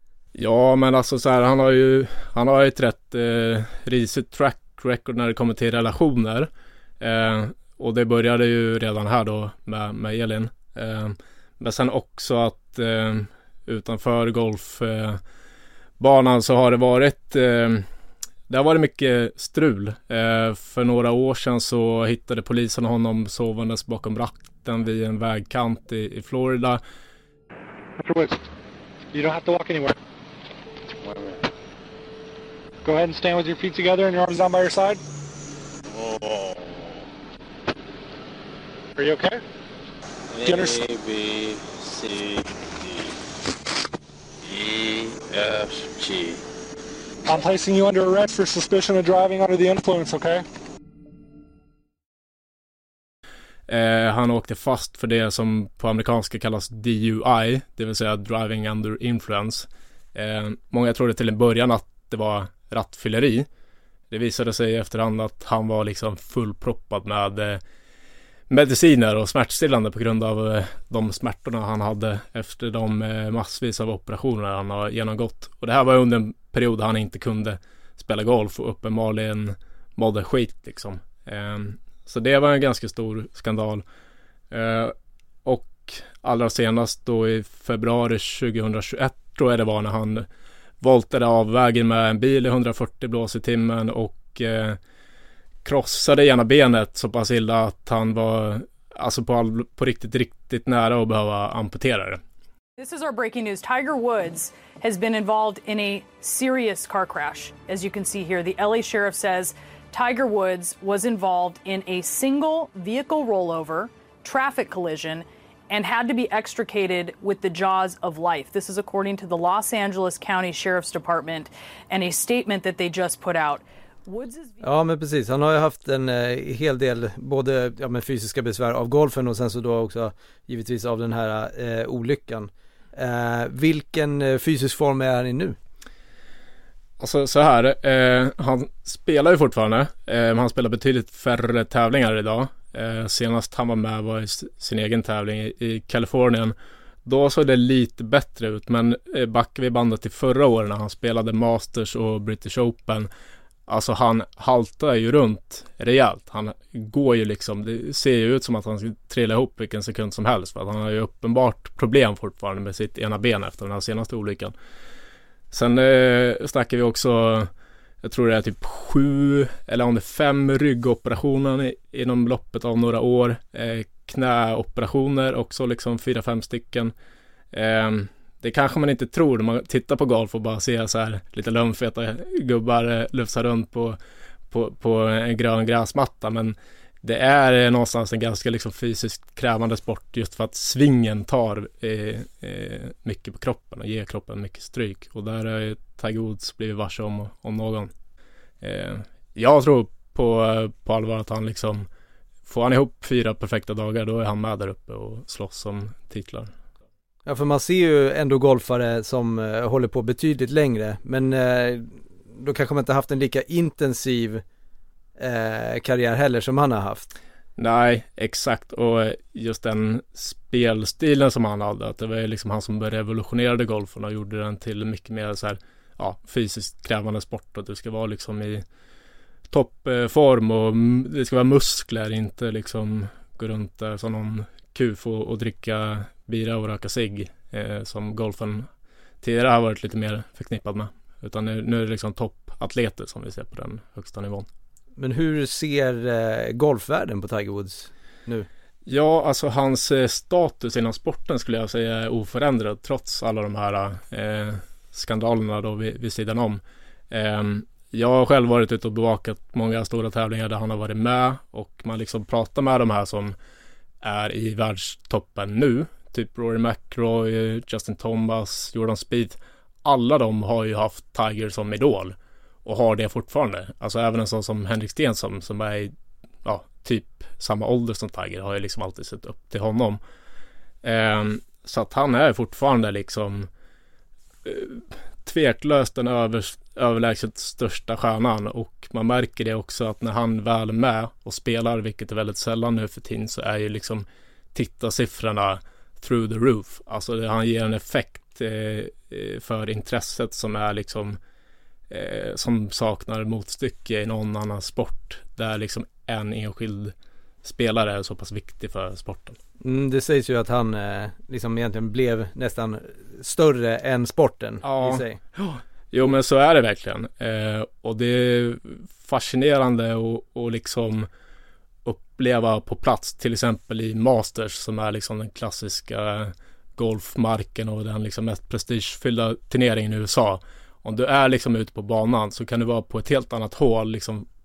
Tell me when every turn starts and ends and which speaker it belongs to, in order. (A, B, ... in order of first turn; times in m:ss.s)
0:00.3-0:06.5 A
0:07.0-0:15.2 A
0:16.0-0:17.8 A
0:18.5-0:26.8 A
0:28.0-0:28.4 B
0:29.1-0:30.0 B
0:31.0-0:31.4 C
0:32.8-0:35.0 B
0:35.9-0:36.6 C
0:39.0-0:39.4 B
0:40.3-0:43.1 C
0:40.4-0:40.8 B
0:44.4-0:46.4 C
0:47.3-0:50.4 B
0:53.7-1:03.5 A
1:04.1-1:07.6 A
1:08.5-1:23.8 A
1:24.5-1:24.9 A
1:25.4-1:30.2 A
1:30.8-1:34.8 A
1:35.6-1:42.2 A
1:42.8-2:04.6 D
2:04.6-2:15.6 E
2:17.0-2:33.1 A
2:33.7-2:44.5 A
2:45.5-2:47.5 A
2:48.0-2:56.9 A
2:57.5-3:04.0 A
3:04.5-3:17.9 A
3:18.6-3:21.8 A
3:22.4-3:26.5 A
3:27.2-3:34.4 E
3:35.2-3:37.1 E
3:37.6-3:48.6 A
3:49.5-3:58.7 A
3:59.2-4:04.5 A
4:05.0-4:08.5 E
4:08.8-4:23.4 A
4:24.0-4:35.9 A
4:36.4-4:40.0 A
4:40.8-4:43.5 A
4:44.4-5:01.2 A
5:01.9-5:09.4 A
5:09.6-5:15.2 E
5:14.6-5:21.1 A
5:21.8-5:34.3 A